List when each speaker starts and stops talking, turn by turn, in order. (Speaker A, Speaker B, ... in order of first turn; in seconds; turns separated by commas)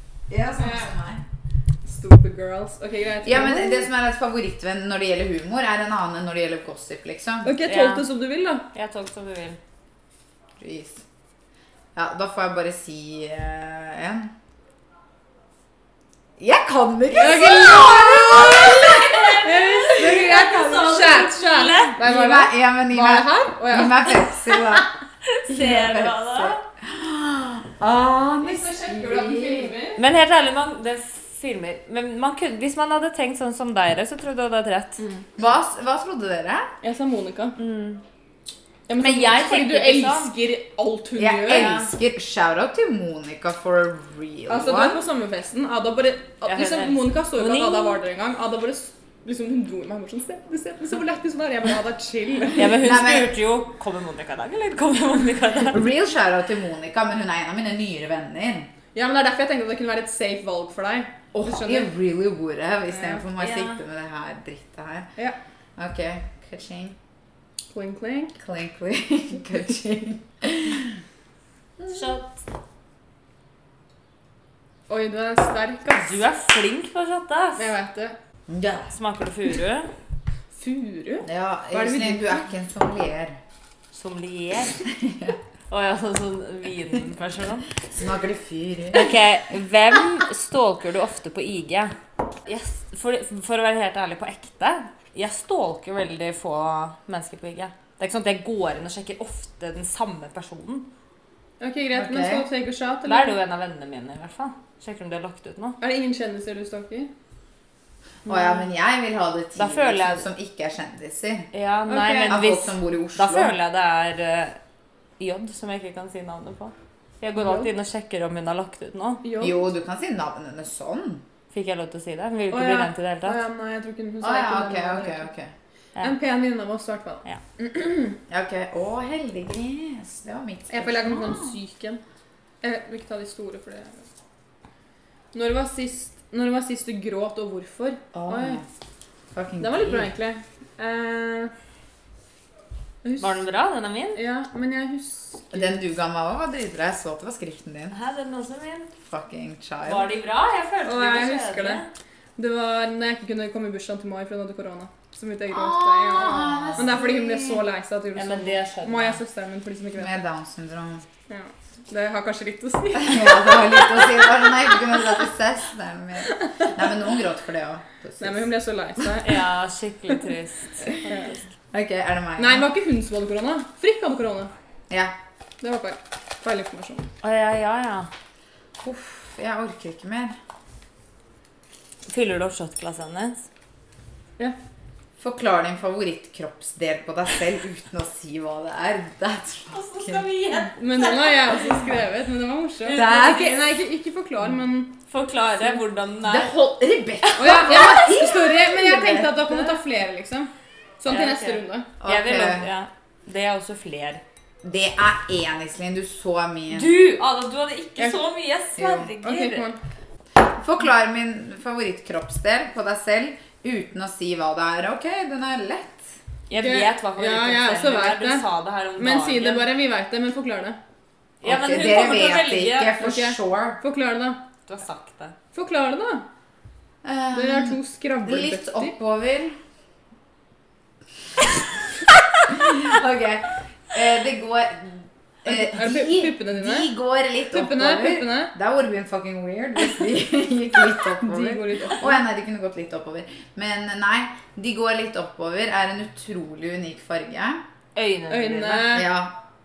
Speaker A: 0.3-1.2, Speaker B: 0.6-0.9, Speaker B: 1.8-3.9, Speaker A: 3.2-7.5, Speaker B: 7.4-8.7, Speaker C: 7.7-8.1, Speaker C: 8.7-9.6, Speaker A: 10.6-11.0, Speaker A: 11.9-14.3, Speaker A: 16.4-20.4, Speaker B: 17.1-24.6, Speaker C: 18.4-22.0, Speaker A: 22.0-24.9, Speaker C: 25.2-26.6, Speaker A: 25.5-29.7, Speaker B: 28.4-30.0, Speaker C: 30.0-35.0, Speaker A: 35.4-36.7, Speaker B: 36.8-37.6, Speaker C: 37.6-38.0, Speaker B: 38.9-41.8, Speaker C: 39.0-40.3, Speaker A: 41.2-45.0, Speaker C: 41.5-41.9, Speaker B: 44.5-52.7, Speaker C: 46.5-48.0, Speaker C: 52.5-55.9, Speaker A: 52.7-53.4, Speaker A: 55.7-58.7, Speaker B: 58.9-61.9, Speaker A: 61.3-65.1, Speaker C: 63.2-63.8, Speaker A: 65.8-67.0, Speaker B: 67.7-68.3, Speaker A: 68.4-71.0, Speaker A: 71.8-72.1, Speaker C: 71.9-72.3, Speaker B: 74.9-76.2, Speaker C: 75.9-77.7, Speaker B: 77.5-78.2, Speaker A: 78.5-78.9, Speaker C: 78.9-79.9, Speaker B: 80.5-82.4, Speaker A: 81.2-83.4, Speaker C: 83.9-84.8, Speaker A: 84.8-85.4, Speaker C: 85.7-87.7, Speaker A: 88.0-89.1, Speaker C: 88.9-91.9, Speaker C: 92.5-100.9, Speaker B: 101.6-103.3, Speaker A: 101.9-102.5, Speaker C: 103.0-105.8, Speaker B: 105.8-107.1, Speaker A: 108.2-111.5, Speaker C: 109.5-110.2, Speaker C: 111.5-114.6, Speaker B: 111.9-112.4, Speaker A: 112.2-113.5, Speaker C: 115.2-119.2, Speaker B: 117.4-117.7, Speaker B: 119.2-119.6, Speaker A: 119.4-121.2, Speaker C: 121.5-123.4, Speaker B: 122.5-125.3, Speaker A: 124.2-125.5, Speaker B: 126.0-128.2, Speaker A: 128.3-131.5, Speaker B: 130.7-132.0, Speaker B: 132.6-134.1, Speaker B: 135.3-138.6, Speaker A: 138.1-138.7, Speaker A: 139.3-140.1, Speaker B: 139.6-141.5, Speaker B: 143.0-143.4, Speaker C: 143.2-144.2, Speaker B: 144.1-145.8, Speaker A: 145.5-148.0, Speaker C: 147.9-148.9, Speaker A: 149.0-150.1, Speaker C: 149.8-151.9, Speaker B: 150.8-151.8, Speaker B: 152.4-160.2, Speaker A: 155.5-157.6, Speaker C: 156.5-156.8, Speaker C: 158.2-159.2, Speaker A: 160.0-161.1, Speaker B: 161.3-164.3, Speaker A: 163.0-168.5, Speaker B: 166.3-166.7, Speaker B: 168.2-169.4, Speaker C: 169.2-171.4, Speaker B: 171.1-171.4, Speaker A: 171.7-172.7, Speaker B: 172.4-174.5, Speaker B: 175.6-177.1, Speaker C: 177.2-178.1, Speaker A: 178.8-180.3, Speaker C: 182.1-183.5, Speaker A: 185.2-190.3, Speaker C: 189.7-191.8, Speaker B: 190.8-194.9, Speaker C: 192.8-193.4, Speaker A: 192.9-193.6, Speaker C: 195.1-196.5, Speaker A: 196.2-199.6, Speaker C: 197.2-197.7, Speaker B: 197.4-201.9, Speaker C: 201.1-204.2, Speaker A: 202.0-202.7, Speaker A: 204.6-207.0, Speaker C: 206.7-209.7, Speaker A: 208.8-209.1, Speaker B: 209.2-209.8, Speaker A: 210.5-216.1, Speaker C: 216.5-219.7, Speaker B: 216.6-218.4, Speaker B: 219.0-220.8, Speaker C: 221.4-223.0, Speaker A: 221.4-223.8, Speaker B: 223.0-224.4, Speaker C: 224.7-225.3, Speaker B: 225.5-226.2, Speaker A: 227.0-229.6, Speaker B: 227.3-228.9, Speaker A: 232.4-247.6, Speaker B: 235.4-236.9, Speaker B: 237.5-238.5, Speaker B: 241.2-242.2, Speaker C: 247.9-249.0, Speaker B: 248.3-249.1, Speaker A: 248.9-249.3